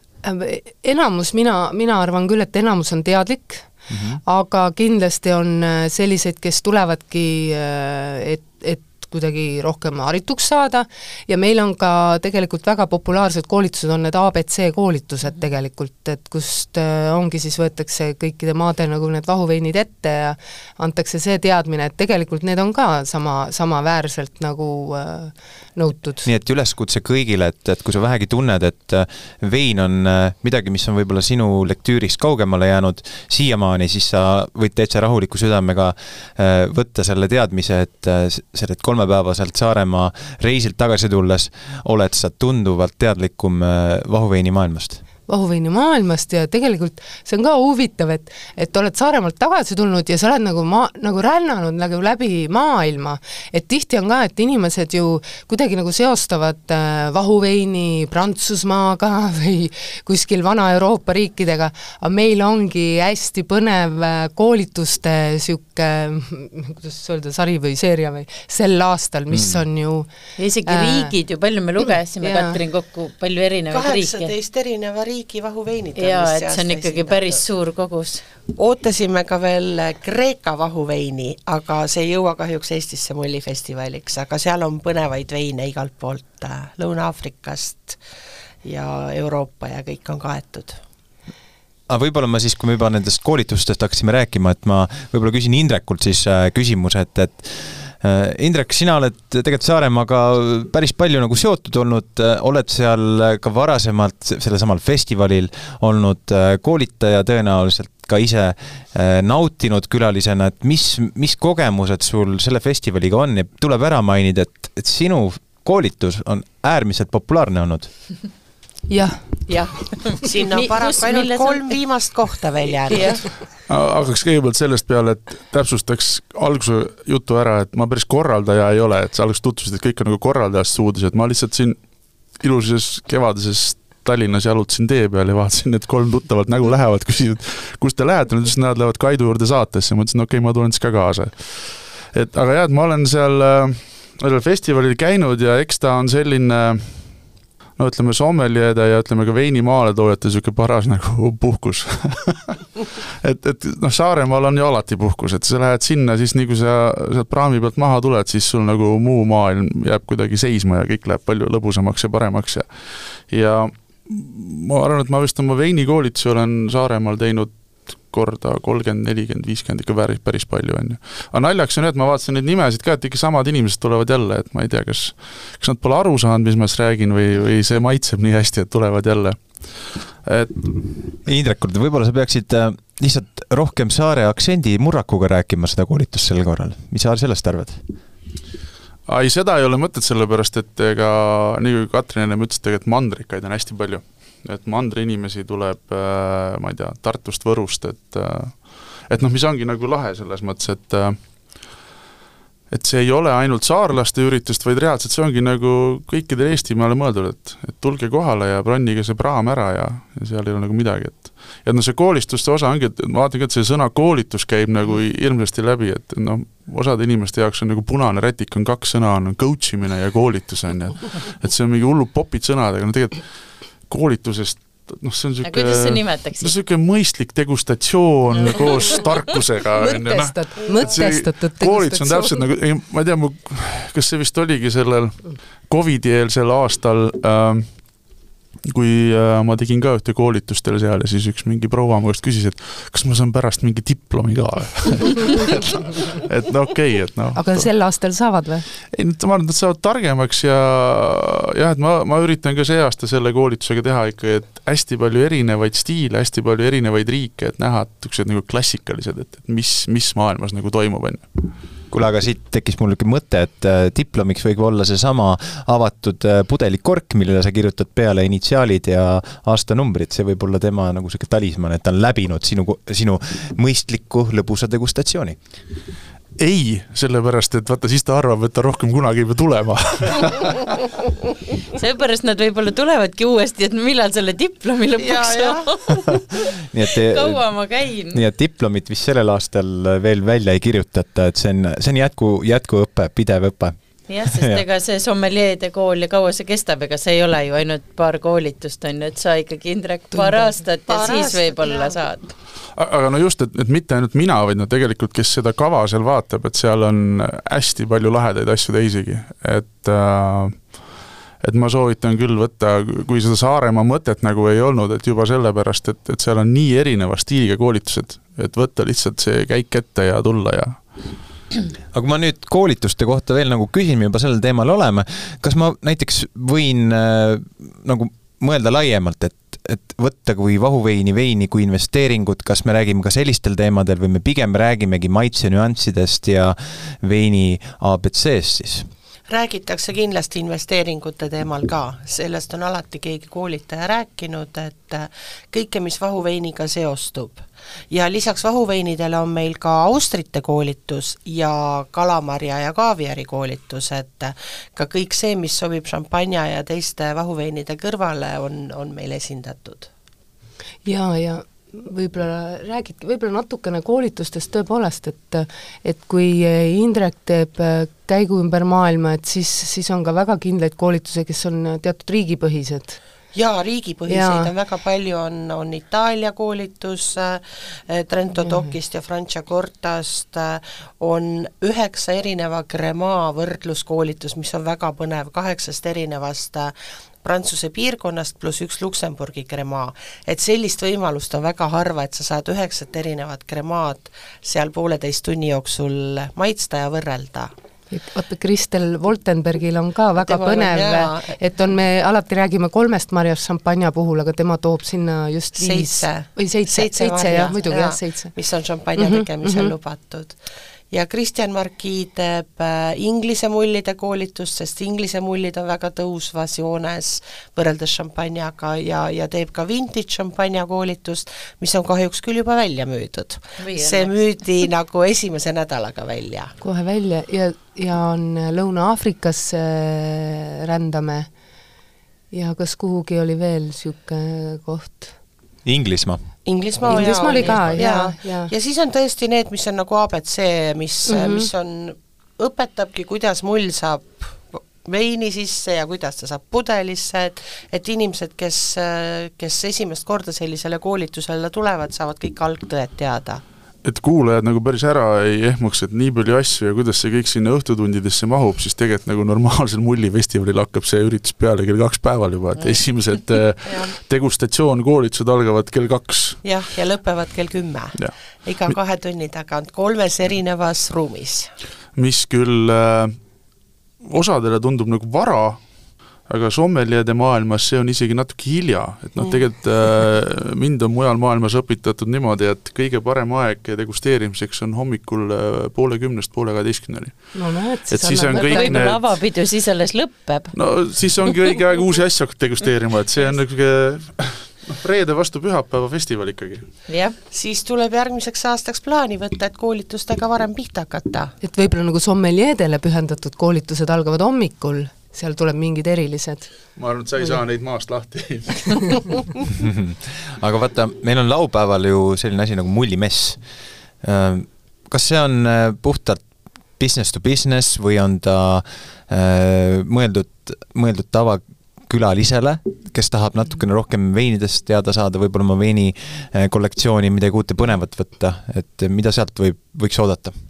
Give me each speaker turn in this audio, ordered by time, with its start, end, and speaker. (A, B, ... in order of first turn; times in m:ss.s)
0:00.2-0:03.7 A
0:03.9-0:04.2 B
0:04.2-0:26.3 A
0:26.2-0:45.0 B
0:45.2-1:10.1 A
1:09.3-1:09.6 B
1:10.4-1:14.3 C
1:10.7-1:11.1 A
1:12.2-1:12.6 A
1:13.7-1:17.4 D
1:16.0-1:18.2 C
1:18.6-1:28.0 D
1:28.6-1:30.8 D
1:31.9-1:57.9 B
1:58.9-1:59.5 A
1:59.5-2:01.8 C
2:00.2-2:03.2 D
2:02.9-2:03.2 C
2:03.6-3:00.8 E
3:01.2-3:07.8 B
3:09.1-3:21.8 E
3:22.7-4:07.7 E
3:45.4-3:46.5 C
3:49.8-3:52.5 A
4:07.3-4:08.7 A
4:08.9-4:21.5 E
4:21.9-4:35.4 B
4:36.4-4:40.6 E
4:41.7-4:48.2 C
4:45.0-4:45.8 D
4:46.7-4:47.5 B
4:48.1-4:54.6 B
4:54.1-5:02.3 C
5:00.9-5:02.0 D
5:02.8-5:21.0 E
5:21.9-5:38.9 B
5:39.3-5:59.9 D
6:00.8-6:13.0 A
6:13.3-6:37.5 D
6:14.1-6:14.5 A
6:18.4-6:18.7 A
6:37.9-6:48.4 A
6:40.2-6:41.4 D
6:45.6-6:50.4 D
6:49.0-6:49.7 A
6:50.9-7:06.6 D
7:03.6-7:04.2 C
7:06.6-7:11.3 A
7:12.3-7:15.1 A
7:15.6-7:16.3 B
7:16.4-7:33.4 D
7:16.8-7:18.5 A
7:21.1-7:21.5 A
7:33.8-7:46.5 E
7:42.6-7:42.8 C
7:43.7-7:43.9 D
7:46.4-7:51.5 D
7:48.0-7:48.8 E
7:52.0-7:53.2 E
7:54.0-8:09.1 E
7:59.2-7:59.4 D
8:07.3-8:08.9 A
8:08.3-8:10.6 C
8:10.5-8:16.8 E
8:16.9-8:17.2 C
8:17.3-8:21.3 D
8:21.4-8:26.6 A
8:26.8-8:29.2 E
8:29.6-8:33.4 B
8:34.0-8:36.2 B
8:36.8-8:50.3 B